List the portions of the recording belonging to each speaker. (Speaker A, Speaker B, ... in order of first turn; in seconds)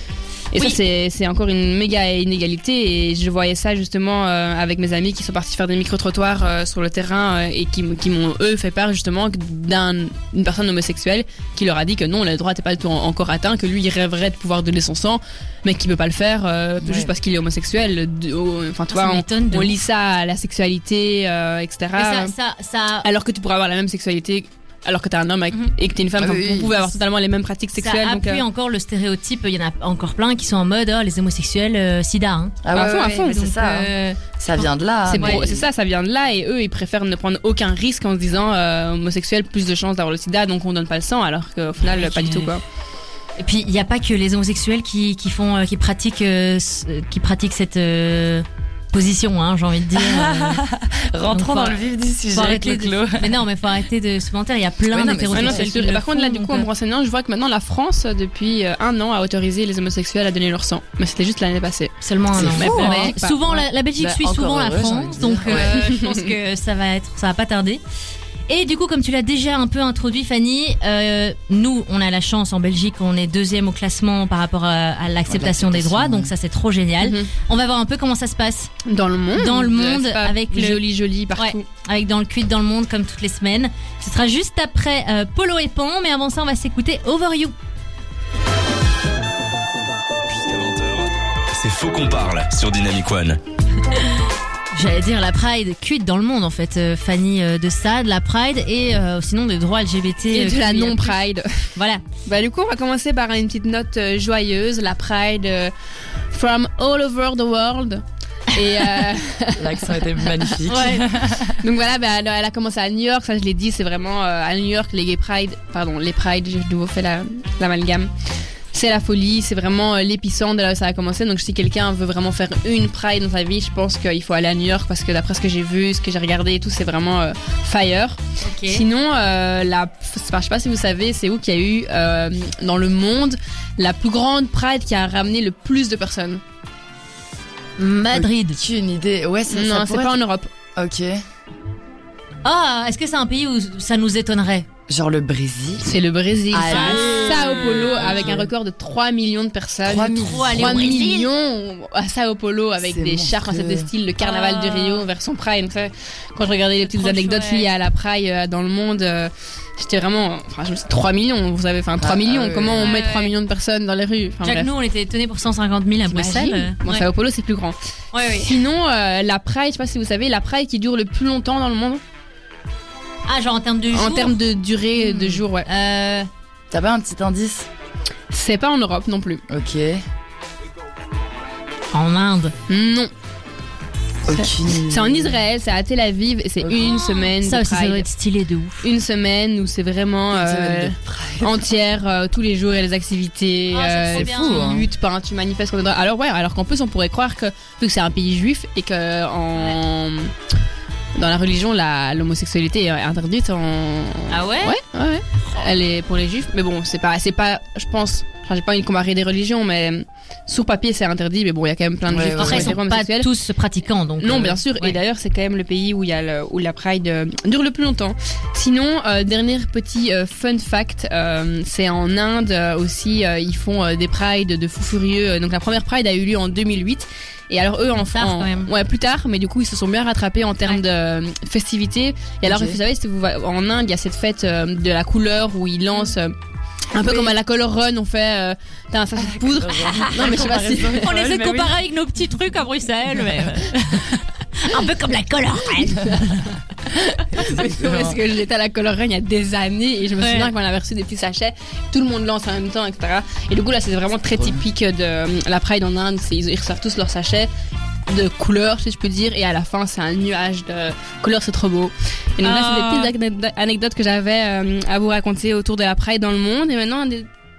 Speaker A: 0.5-22.3, 23.0-28.4, 32.8-33.4, 35.1-42.6, 55.3-61.9, 62.5-63.6, 65.5-66.3, 77.0-77.3, 78.9-81.7, 100.3-101.7, 102.2-105.7, 106.3-118.1, 118.7-136.4, 139.5-140.5, 145.8-164.7, 166.1-167.8, 168.3-172.0, 173.9-175.7, 178.3-179.4, 182.7-183.1, 184.3-188.1, 188.8-200.3, 201.2-213.3, 214.2-236.3, 236.9-241.1, 247.3-257.5, 258.1-267.3
Speaker B: 16.8-17.1, 26.2-26.8, 32.6-35.6, 49.9-53.3, 54.9-55.6, 62.3-63.1, 64.0-65.7, 75.3-76.3, 109.6-111.6, 138.1-140.2, 140.7-141.2, 144.9-145.9, 146.5-148.5, 149.8-150.9, 152.8-153.9, 162.0-163.0, 176.7-177.7, 179.5-180.0, 184.2-185.3, 190.3-191.7, 194.1-194.9, 212.1-212.8, 232.4-232.8, 239.2-241.8, 246.0-246.5, 247.3-248.2, 254.3-254.6
Speaker C: 18.9-19.7, 21.9-23.1, 27.8-34.6, 41.8-42.5, 43.4-50.6, 51.3-51.8, 52.3-56.7, 62.0-67.8, 68.5-78.7, 79.4-80.8, 81.4-87.5, 94.7-101.2, 101.8-102.0, 110.7-111.0, 128.4-128.8, 137.8-138.6, 142.4-144.7, 146.7-148.4, 150.1-151.3, 154.2-155.0, 156.8-157.7, 162.8-163.3, 164.4-167.1, 168.1-168.5, 173.3-174.4, 175.0-176.3, 181.9-182.5, 186.7-188.8, 193.7-194.8, 204.3-204.8, 212.4-215.0, 228.1-228.7, 239.9-246.5, 250.2-250.5, 262.4-263.1
Speaker D: 90.2-93.4